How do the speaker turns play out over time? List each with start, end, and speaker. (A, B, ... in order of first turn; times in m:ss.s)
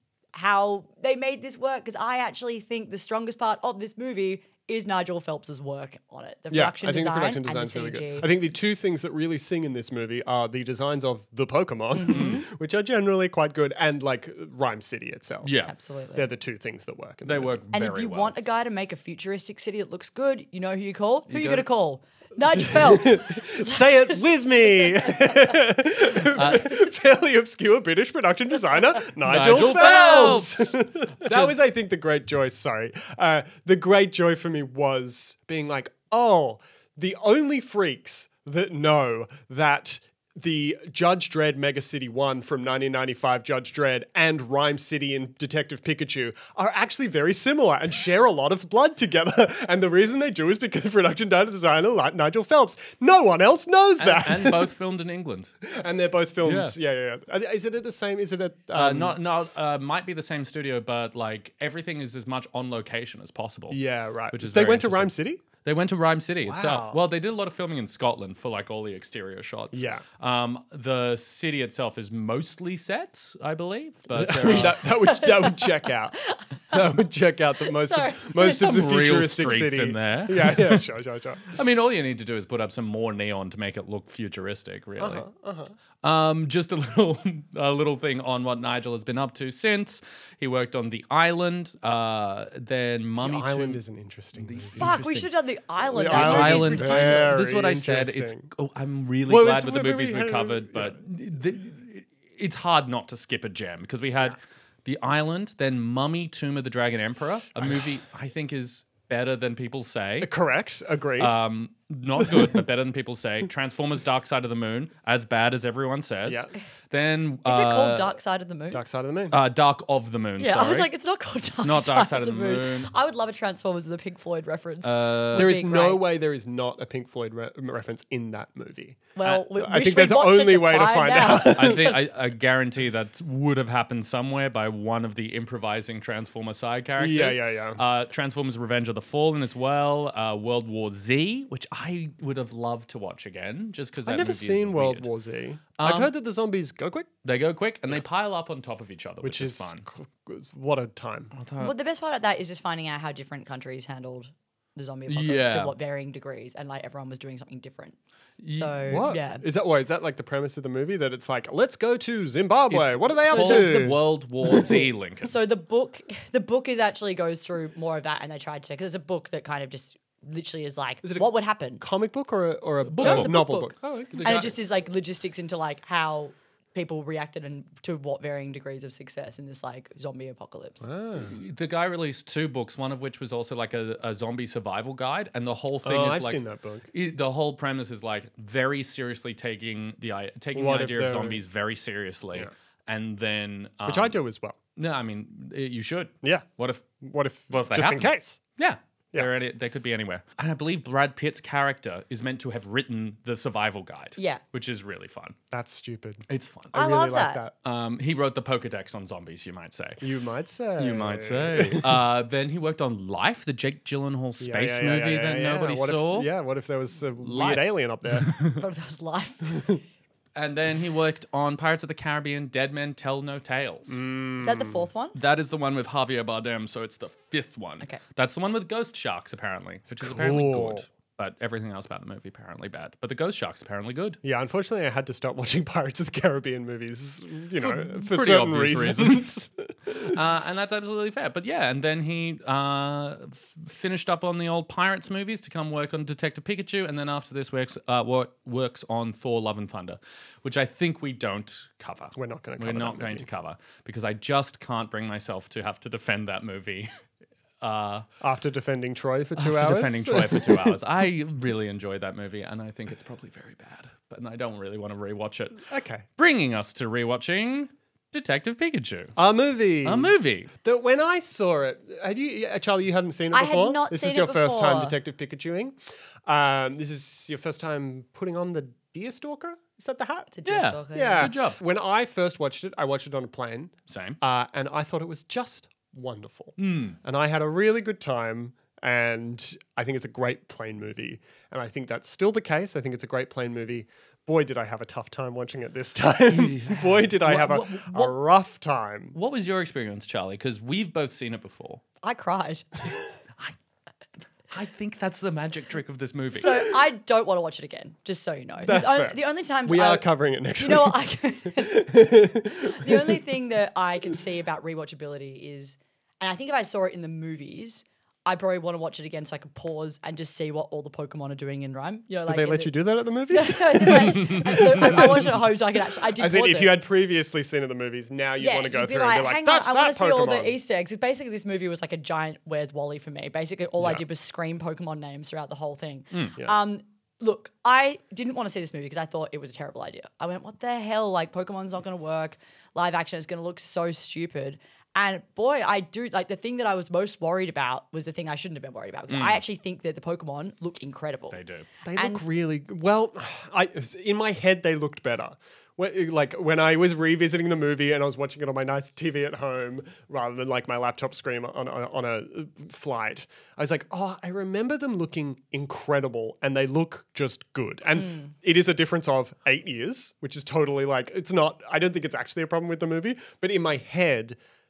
0:00.3-0:08.3 A
0:06.5-0:15.5 B
0:11.9-0:12.5 A
0:12.1-0:12.4 C
0:15.4-0:15.7 C
0:15.7-0:16.3 A
0:16.1-0:17.6 B
0:17.2-0:18.4 C
0:17.7-0:24.1 A
0:21.3-0:21.6 C
0:22.5-0:54.7 B
0:26.2-0:26.8 C
0:29.2-0:31.6 C
0:54.0-0:55.5 C
0:55.6-0:59.2 B
0:56.4-0:56.8 C
0:58.7-1:03.8 C
1:03.7-1:05.4 B
1:04.3-1:14.8 C
1:06.4-1:07.0 B
1:09.7-1:10.0 B
1:14.1-1:16.2 B
1:15.0-1:16.8 A
1:16.7-1:21.6 B
1:17.7-1:18.7 A
1:18.4-1:20.9 C
1:21.5-1:25.2 C
1:25.0-1:25.8 B
1:26.0-1:33.8 C
1:33.2-1:35.0 B
1:34.4-1:35.3 C
1:34.8-1:37.4 A
1:35.9-1:38.5 B
1:36.0-1:50.3 C
1:39.3-1:41.0 B
1:47.6-1:47.8 B
1:50.2-1:51.4 B
1:51.2-1:58.2 C
1:52.2-1:52.6 B
1:56.2-1:56.5 B
1:57.4-1:58.8 A
1:58.7-1:59.4 B
1:59.3-2:00.9 C
2:00.4-2:06.0 A
2:01.6-2:02.9 C
2:04.8-2:05.5 C
2:05.3-2:12.0 B
2:09.2-2:12.0 A
2:11.5-2:25.1 C
2:17.0-2:17.8 B
2:24.1-2:27.1 B
2:25.8-2:26.1 C
2:27.2-2:29.8 C
2:29.2-2:31.3 B
2:31.3-2:31.7 C
2:31.6-2:38.0 A
2:35.1-2:35.8 C
2:38.4-2:39.1 C
2:38.5-2:39.4 A
2:38.9-2:44.9 B
2:42.7-2:45.3 C
2:43.3-2:43.9 A
2:44.5-2:51.8 A
2:51.0-2:51.3 B
2:51.8-2:54.6 B
2:52.9-2:53.4 C
2:53.0-3:00.9 A
2:54.1-2:54.5 C
3:00.8-3:01.4 B
3:01.2-3:06.4 C
3:05.8-3:06.9 B
3:06.9-3:14.2 C
3:10.6-3:11.4 B
3:13.9-3:14.6 B
3:14.8-3:16.9 C
3:17.0-3:18.4 B
3:17.5-3:25.4 C
3:25.5-3:27.5 B
3:26.3-3:26.8 C
3:26.7-3:27.4 A
3:27.6-3:30.0 C
3:30.0-3:32.0 B
3:30.8-3:36.3 C
3:34.4-3:38.3 B
3:37.2-3:38.6 C
3:38.6-3:39.7 A
3:40.4-3:44.0 C
3:43.9-3:44.8 B
3:44.4-3:45.2 A
3:45.1-3:54.2 C
3:49.9-3:50.9 B
3:54.2-4:00.2 B
3:57.6-3:59.3 C
3:59.9-4:16.9 C
4:12.2-4:13.3 B
4:17.6-4:18.1 C
4:18.2-4:20.8 B
4:19.4-4:29.2 C
4:25.6-4:26.0 B
4:29.2-4:40.3 B
4:29.8-4:30.5 C
4:33.3-4:35.0 A
4:40.4-4:41.3 A
4:40.5-4:41.6 C
4:40.9-4:59.2 B
4:43.9-4:44.2 C
4:46.6-4:47.0 C
4:56.3-4:58.1 C
4:59.1-5:01.8 C
5:02.0-5:02.7 A
5:04.5-5:06.5 C
5:06.3-5:10.0 A
5:08.6-5:13.2 B
5:10.6-5:11.9 A
5:12.6-5:22.8 A
5:22.3-5:25.4 B
5:23.3-5:26.8 A
5:24.2-5:24.6 C
5:26.2-5:30.6 B
5:28.4-5:51.4 A
5:49.1-5:49.4 C
5:51.3-5:51.7 C
5:51.9-6:14.4 B
5:51.9-5:52.2 A